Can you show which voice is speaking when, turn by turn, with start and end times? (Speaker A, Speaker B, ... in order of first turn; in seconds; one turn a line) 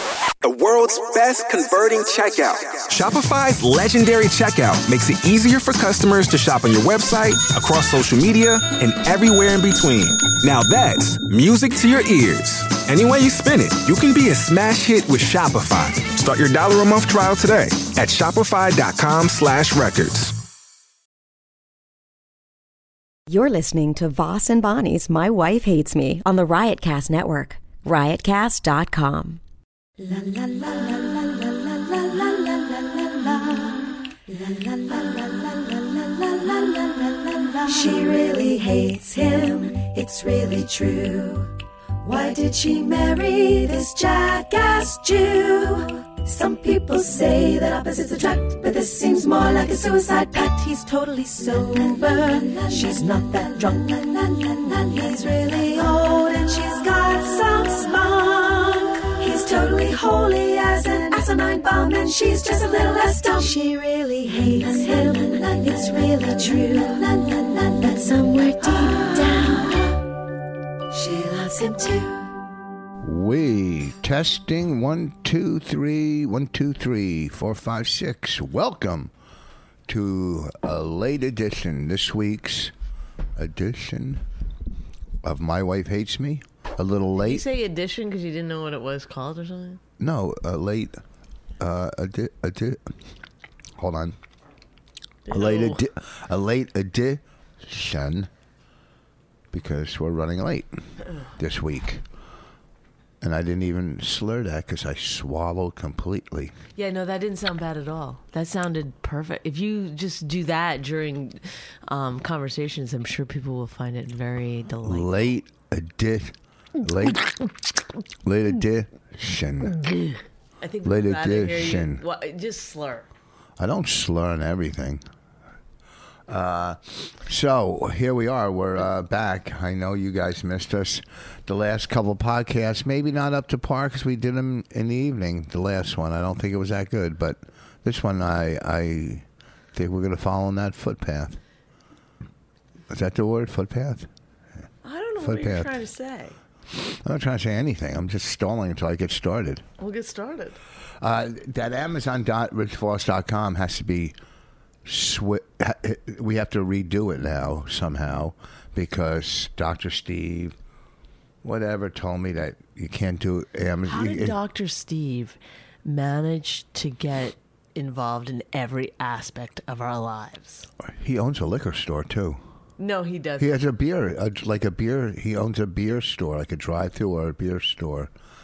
Speaker A: 0.4-20.4
Speaker B: 23.3-29.4
Speaker C: 30.0-70.0
Speaker C: 70.9-72.3
Speaker D: 73.0-79.1
Speaker D: 79.9-82.7
Speaker D: 83.3-84.2
Speaker D: 85.2-87.4
Speaker E: 87.1-89.8
Speaker D: 90.0-91.0
Speaker D: 91.6-92.9
Speaker D: 93.8-94.2
Speaker E: 95.2-95.8
Speaker D: 95.3-98.3
Speaker D: 99.5-100.7
Speaker D: 101.3-102.0
Speaker D: 103.2-106.5
Speaker E: 106.8-115.3
Speaker D: 114.8-117.4
Speaker D: 118.2-119.8
Speaker E: 119.9-123.1
Speaker D: 120.8-122.0
Speaker D: 123.6-125.0
Speaker D: 126.3-141.4
Speaker D: 142.9-144.1
Speaker E: 144.8-146.3
Speaker D: 145.2-145.7
Speaker D: 146.7-149.6
Speaker E: 149.8-150.6
Speaker D: 151.0-154.1
Speaker D: 154.8-160.5
Speaker D: 161.4-164.4
Speaker E: 163.8-170.7
Speaker D: 170.8-172.4
Speaker E: 172.8-173.6
Speaker D: 173.4-178.1